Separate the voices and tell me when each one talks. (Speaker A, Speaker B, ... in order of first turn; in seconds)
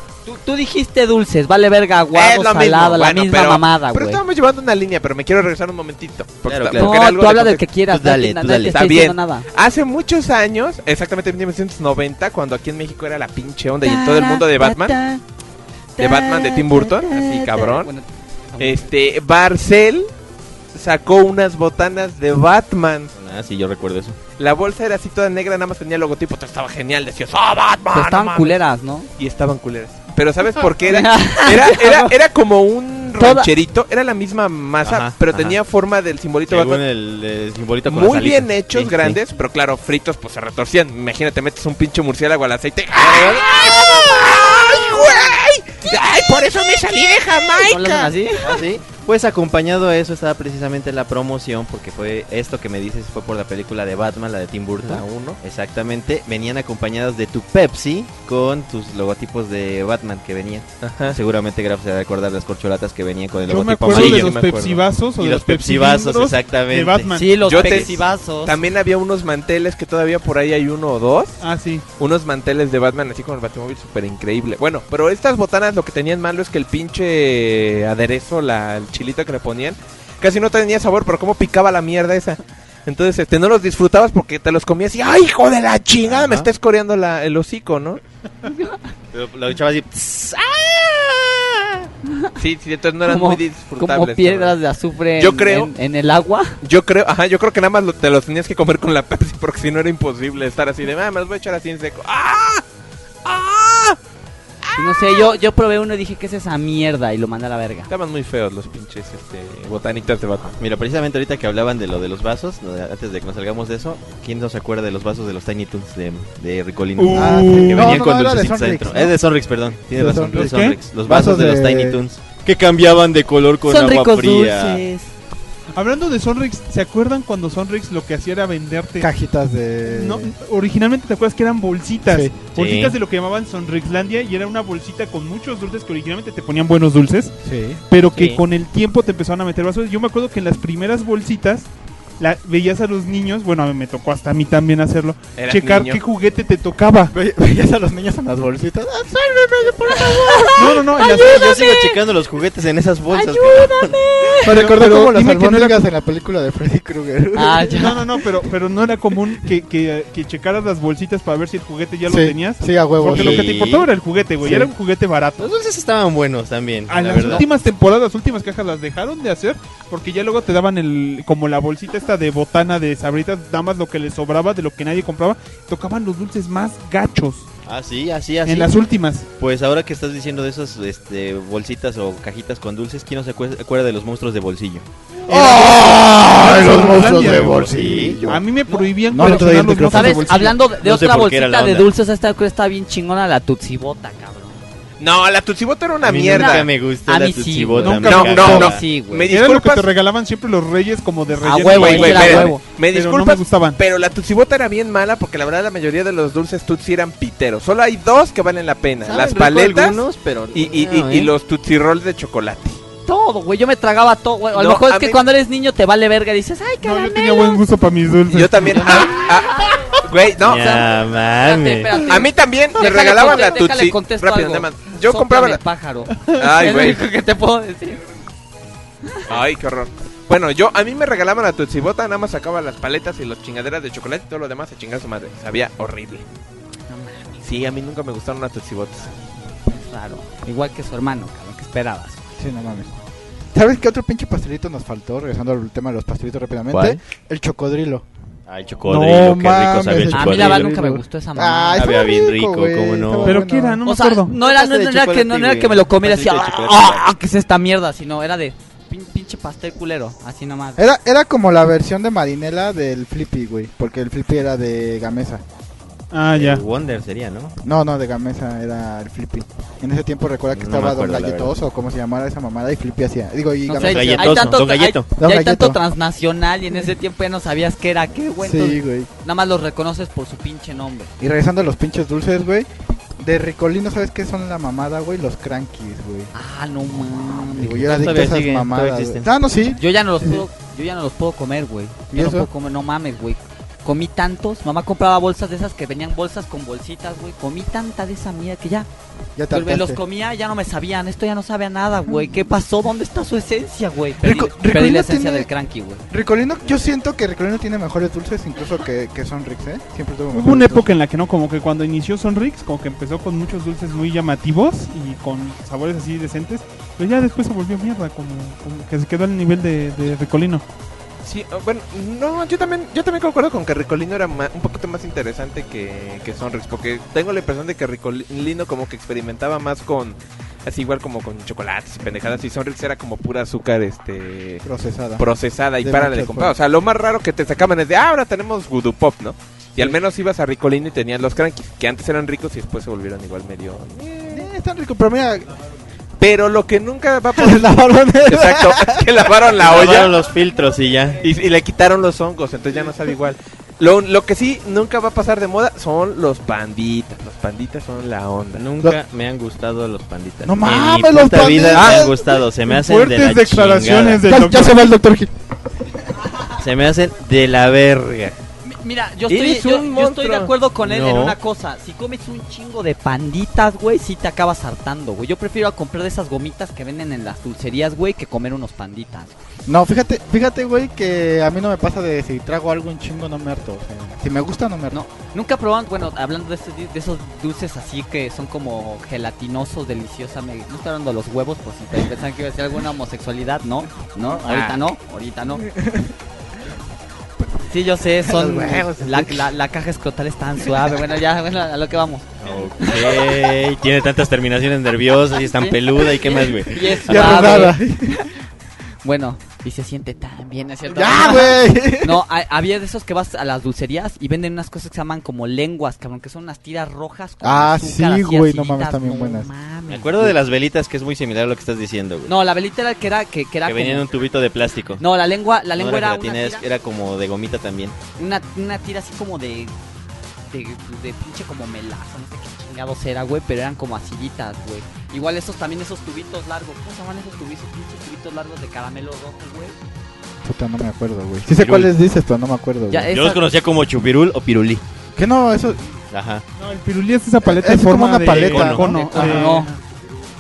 Speaker A: 0.3-4.2, 6.8-9.5, 13.8-15.2, 16.0-18.9, 27.9-29.1, 30.6-32.1, 33.2-33.5, 43.9-44.2, 47.6-48.6, 67.2-68.6, 88.5-88.8, 92.1-92.3, 93.0-96.6, 104.8-107.9, 123.7-125.1, 149.9-152.0, 153.1-154.6, 157.4-158.0, 188.7-194.6, 196.3-199.3, 201.4-202.6, 213.1-217.7, 218.7-219.8, 221.4-228.1, 236.9-237.3, 239.7-242.4, 250.1-251.8, 253.8-260.8, 273.7-281.1, 286.3-288.0, 289.8-298.9, 299.5-306.0, 368.6-379.4, 384.9-395.6, 397.6-402.3, 402.8-403.4, 405.4-408.3, 409.0-420.4, 422.3-424.1, 425.0-426.6, 428.2-429.7, 430.5-439.8, 442.9-443.5, 448.9-449.7
Speaker B: 2.1-7.7, 8.7-15.0, 16.0-17.9, 18.6-20.1, 20.7-23.1, 24.4-28.6, 29.2-36.8, 37.9-48.1, 54.8-55.4, 60.8-61.2, 63.9-64.8, 67.5-71.4, 72.0-88.0, 92.4-94.6, 95.2-95.7, 96.6-102.6, 103.2-104.0, 104.6-105.3, 107.9-110.5, 145.4-146.0, 195.0-196.7, 198.0-199.9, 201.7-210.0, 210.5-212.8, 214.6-215.2, 218.3-220.9, 222.1-225.6, 226.3-227.0, 229.3-236.2, 237.4-239.1, 321.2-334.6, 335.2-344.5, 346.2-350.2, 351.2-358.6, 369.3-370.5, 394.5-394.8, 398.4-398.6
Speaker C: 6.5-7.0, 7.9-8.8, 23.1-24.2, 34.8-35.6, 36.5-39.2, 43.0-43.5, 48.4-64.7, 65.2-68.0, 86.1-86.5, 89.1-91.9, 110.6-124.8, 132.5-133.0, 138.1-138.4, 151.0-153.9, 163.1-163.9, 165.4-167.5, 177.7-178.8, 179.4-184.9, 187.2-188.3, 190.7-191.9, 196.0-198.8, 209.0-211.3, 220.4-222.2, 246.7-247.0, 248.5-250.7, 251.8-253.4, 254.3-257.1, 266.3-267.6, 270.5-271.5, 273.8-275.1, 287.6-289.3, 349.6-351.2, 358.6-364.2, 366.6-368.4, 370.8-371.4, 402.4-407.5, 419.9-422.3, 423.7-425.0, 425.8-428.0, 441.6-441.9, 443.1-444.8, 446.1-446.4, 448.4-448.9
Speaker D: 63.5-67.7, 71.4-71.8, 117.0-118.0, 120.3-120.8, 125.8-129.1, 129.9-137.3, 137.9-141.7, 142.2-147.1, 150.6-151.4, 154.5-155.8, 157.7-165.5, 166.9-177.5, 178.4-179.3, 185.3-187.6, 188.2-190.6, 197.9-198.6, 199.3-203.8, 216.8-219.2, 253.2-254.3, 266.1-266.6, 310.3-320.6, 361.7-364.9, 446.6-449.8
Speaker E: 117.1-119.2, 119.9-122.0, 129.0-130.3, 132.1-132.3, 137.4-137.8, 147.1-150.8, 154.4-158.0, 162.1-163.6, 164.4-164.7, 185.3-188.4, 189.1-190.3, 242.4-242.9, 243.5-248.1, 248.8-253.8, 260.8-265.4, 267.6-274.6, 275.2-275.8, 278.4-279.1, 281.2-282.7, 283.2-286.3, 287.3-290.4, 292.1-292.5, 299.4-300.0, 304.2-305.5, 306.1-310.9, 334.6-335.3, 335.8-336.6, 344.3-345.5, 347.3-349.3, 360.4-362.2, 364.2-365.3, 379.7-385.0, 398.4-399.1, 407.0-408.3, 410.9-412.2, 417.4-419.5, 440.4-443.1, 445.2-445.8, 447.4-449.5